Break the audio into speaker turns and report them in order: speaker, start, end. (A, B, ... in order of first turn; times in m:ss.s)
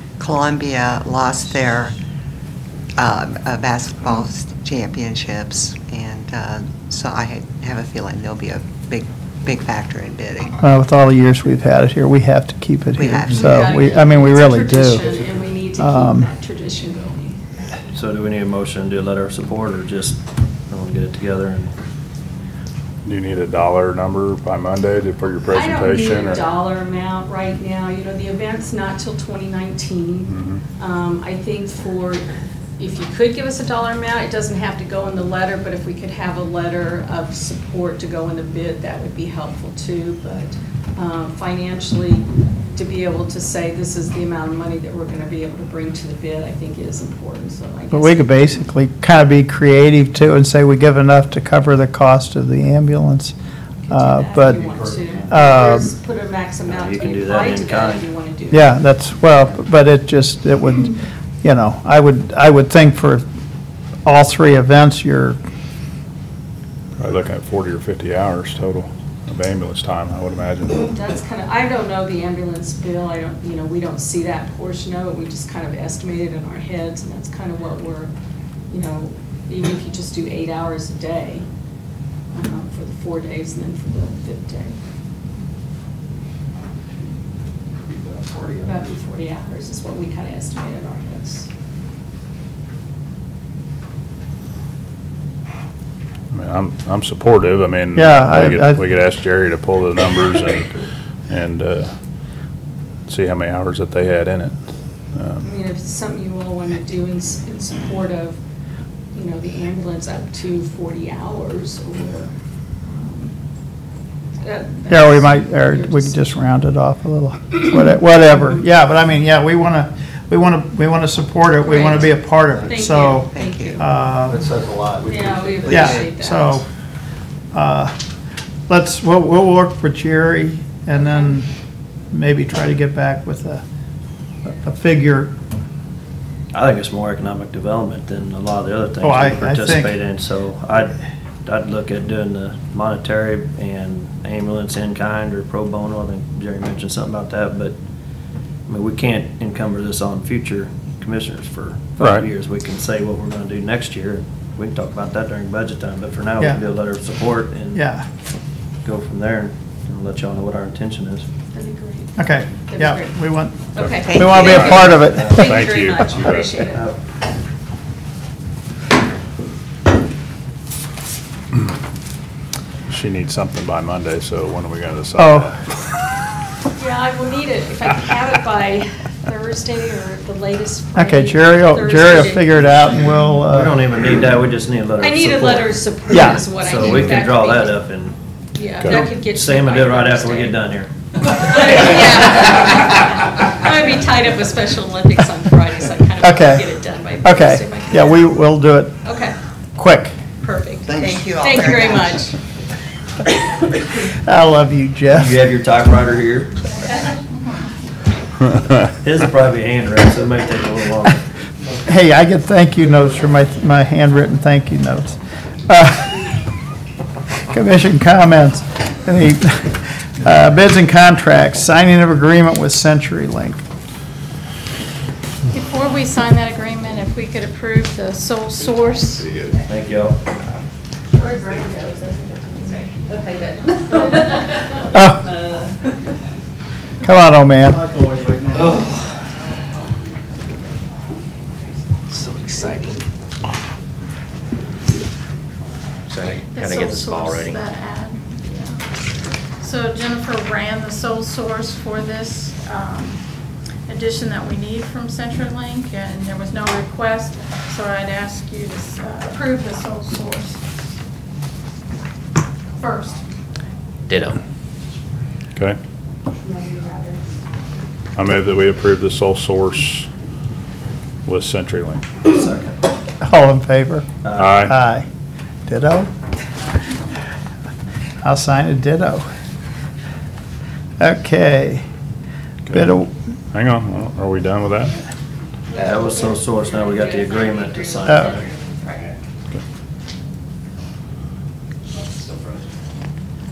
0:00.2-0:01.9 A
0:03.0-0:10.5 A
0:10.6-0:15.1 B
0:13.0-0:13.7 A
0:13.3-0:17.4 C
0:15.8-0:16.3 B
0:17.9-0:20.2 D
0:20.7-0:21.7 D
0:23.0-0:26.4 E
0:25.5-0:32.3 C
0:30.3-0:30.6 E
0:32.8-0:48.5 C
0:47.9-0:53.3 B
0:53.8-0:58.8 C
0:53.9-0:54.7 B
0:55.3-0:55.9 B
0:56.7-0:58.0 D
0:58.5-1:03.2 B
1:04.0-1:05.4 B
1:07.0-1:10.9 E
1:10.8-1:18.1 C
1:18.7-1:21.5 C
1:22.3-1:24.8 C
1:28.6-1:31.5 C
1:36.3-1:40.7 E
1:37.9-1:38.8 B
1:41.3-1:41.9 E
1:43.1-1:44.6 E
1:45.1-1:45.4 E
1:45.4-1:48.4 C
1:49.1-1:52.3 C
1:52.9-1:53.3 C
1:54.4-1:56.2 C
1:54.9-2:04.4 B
2:01.6-2:03.9 C
2:03.4-2:03.8 A
2:04.3-2:06.0 A
2:05.0-2:06.6 C
2:05.6-2:06.6 B
2:07.5-2:08.0 B
2:08.7-2:11.5 B
2:12.1-2:13.6 B
2:14.4-2:15.3 B
2:16.5-2:27.8 D
2:19.0-2:20.0 B
2:28.7-2:37.8 D
2:32.0-2:32.3 E
2:37.7-2:38.1 B
2:38.8-2:41.3 D
2:41.5-2:43.2 C
2:42.2-2:45.3 B
2:43.7-2:46.9 C
2:43.8-2:46.6 E
2:44.1-2:44.4 A
2:44.3-2:45.6 D
2:52.9-2:55.6 E
2:55.2-2:55.5 B
2:56.8-3:03.0 C
3:01.0-3:03.9 B
3:03.5-3:08.2 D
3:05.0-3:07.8 C
3:06.1-3:06.5 B
3:08.6-3:10.6 C
3:08.8-3:10.9 D
3:11.3-3:18.4 C
3:11.6-3:12.0 D
3:16.2-3:16.7 B
3:17.2-3:19.0 B
3:19.0-3:19.4 C
3:19.8-3:20.2 B
3:20.4-3:22.4 C
3:20.9-3:22.2 A
3:24.0-3:25.4 B
3:25.1-3:26.7 D
3:27.0-3:27.7 F
3:28.9-3:31.2 D
3:31.8-3:36.3 B
3:37.5-3:43.6 B
3:45.5-3:49.4 F
3:49.6-3:50.3 D
3:51.2-3:55.6 C
3:54.9-3:55.3 B
3:57.0-3:57.9 B
4:02.1-4:03.0 G
4:06.1-4:07.6 G
4:06.5-4:08.8 F
4:09.6-4:13.2 F
4:13.9-4:20.6 F
4:22.8-4:23.2 F
4:24.1-4:24.4 G
4:26.4-4:27.2 C
4:28.2-4:30.1 E
4:31.2-4:32.0 E
4:32.2-4:32.9 D
4:33.2-4:34.1 B
4:34.2-4:34.6 D
4:34.4-4:34.8 E
4:34.6-4:35.1 B
4:35.7-4:36.1 B
4:38.2-4:39.3 B
4:41.0-4:41.8 B
4:42.7-4:42.9 E
4:42.7-4:43.1 B
4:43.5-4:45.0 E
4:45.8-4:48.4 D
4:45.8-4:49.0 C
4:48.1-4:48.4 B
4:51.9-4:52.6 G